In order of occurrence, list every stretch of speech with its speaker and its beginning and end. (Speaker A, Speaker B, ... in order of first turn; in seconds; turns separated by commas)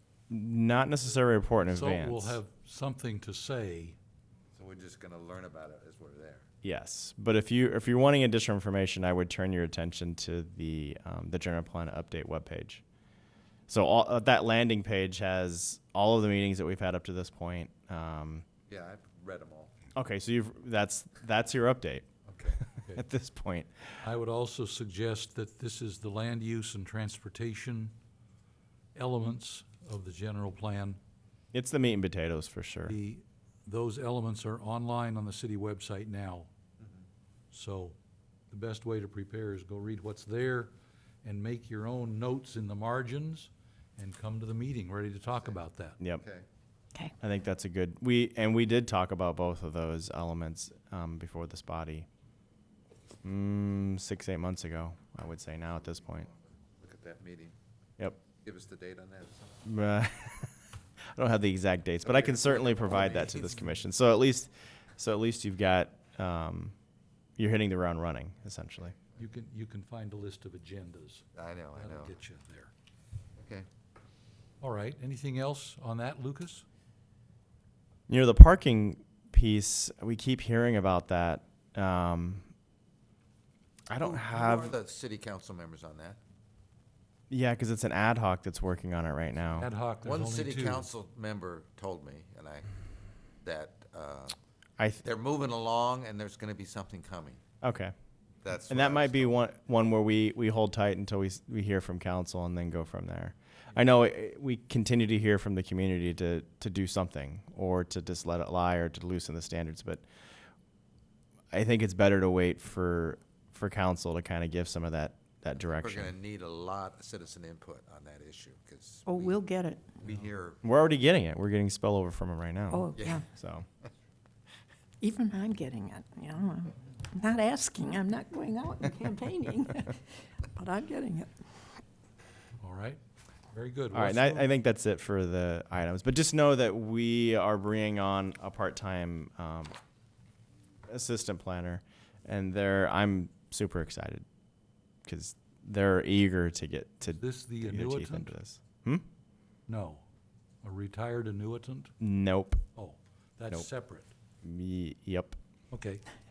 Speaker A: 0.3-2.4, Speaker B: 1.7-4.0, Speaker C: 4.5-6.5, Speaker A: 6.6-12.8, Speaker A: 13.7-18.4, Speaker C: 18.7-19.7, Speaker A: 19.9-22.1, Speaker B: 22.3-23.0, Speaker A: 22.9-23.9, Speaker B: 24.0-27.9, Speaker B: 28.9-31.0, Speaker A: 31.5-33.0, Speaker B: 32.9-36.5, Speaker B: 37.5-38.0, Speaker B: 38.5-40.7, Speaker B: 41.2-46.0, Speaker A: 47.2-52.1, Speaker A: 53.2-56.3, Speaker C: 56.8-57.5, Speaker C: 58.4-59.5, Speaker A: 59.6-60.5, Speaker A: 61.1-66.7, Speaker C: 62.0-63.6, Speaker A: 67.4-69.0, Speaker B: 69.2-71.2, Speaker C: 71.3-72.1, Speaker B: 71.8-72.7, Speaker C: 73.4-73.7, Speaker B: 74.6-76.6, Speaker A: 78.1-82.5, Speaker A: 83.9-84.7, Speaker C: 84.0-86.2, Speaker A: 87.3-89.7, Speaker B: 89.6-90.8, Speaker C: 90.0-92.7, Speaker C: 93.4-94.3, Speaker A: 94.8-95.0, Speaker C: 95.0-97.4, Speaker A: 97.6-97.9, Speaker C: 98.4-99.3, Speaker A: 98.7-110.0, Speaker A: 111.5-116.1, Speaker C: 115.7-119.4, Speaker D: 119.0-119.8, Speaker C: 120.0-120.6, Speaker A: 120.6-123.7, Speaker D: 122.7-123.2, Speaker C: 123.0-123.2, Speaker D: 125.0-131.3, Speaker B: 132.6-133.0, Speaker B: 133.5-134.5, Speaker A: 133.9-139.8, Speaker A: 140.9-144.2, Speaker A: 145.1-149.1, Speaker B: 147.2-148.3, Speaker B: 149.7-150.1, Speaker B: 150.6-151.9, Speaker A: 152.0-152.6, Speaker B: 152.8-154.1, Speaker A: 154.4-155.4, Speaker B: 155.7-156.0